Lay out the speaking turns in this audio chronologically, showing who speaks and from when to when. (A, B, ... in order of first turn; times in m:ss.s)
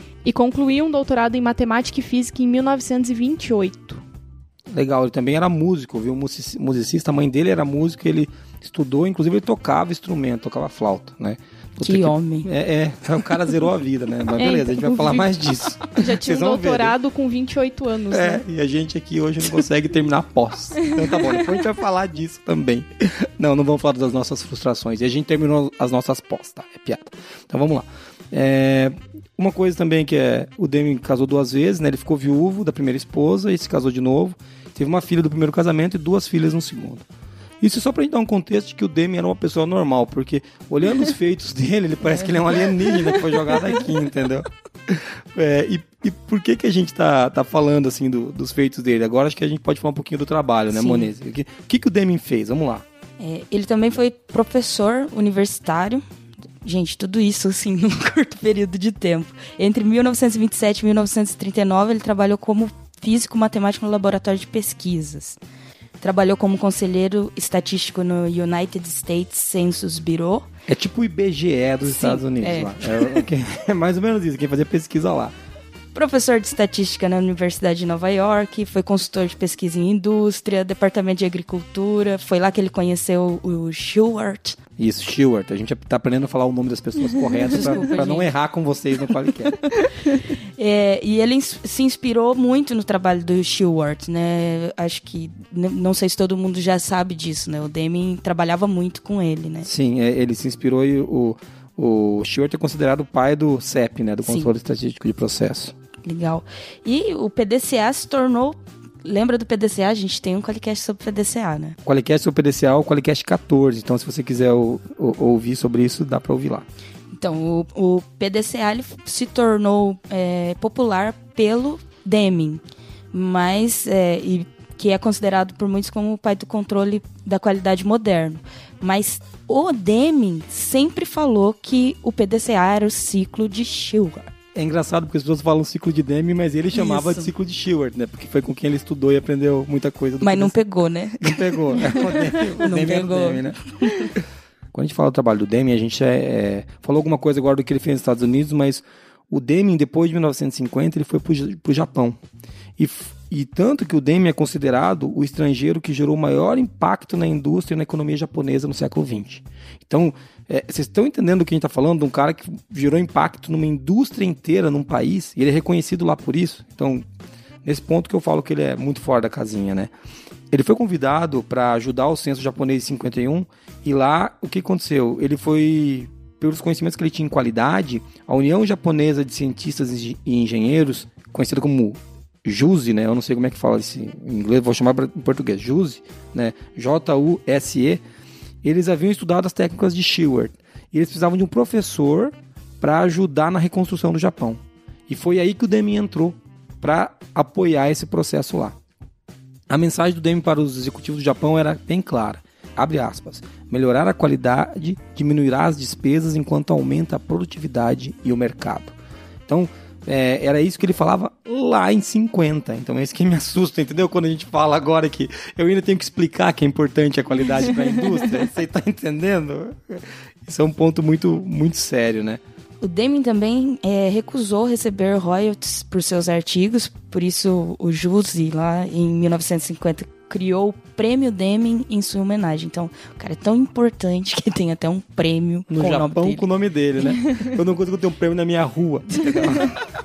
0:00.2-0:04.0 A
0:04.7-0:17.0 B
0:11.8-0:12.5 C
0:14.4-0:18.4 A
0:18.1-0:37.0 B
0:37.6-0:52.8 B
0:50.7-0:51.1 C
0:53.2-0:56.0 C
0:56.6-1:05.4 C
1:06.0-1:10.5 C
1:10.7-1:15.4 B
1:11.8-1:13.3 C
1:15.9-1:24.6 C
1:24.8-1:29.6 B
1:27.5-1:28.3 C
1:30.6-1:39.7 C
1:39.6-1:45.8 B
1:44.2-1:44.5 C
1:46.0-1:51.8 C
1:51.8-1:56.7 B
1:57.1-2:14.3 C
2:14.6-2:20.6 B
2:16.7-2:17.3 C
2:20.2-2:24.1 C
2:21.2-2:23.6 B
2:24.7-2:32.2 B
2:32.8-2:47.1 B
2:47.6-2:49.9 B
2:50.5-3:08.0 B
3:08.6-3:18.8 B
3:19.7-3:29.0 B
3:29.5-3:42.4 B
3:42.8-3:56.5 C
3:55.7-3:59.7 B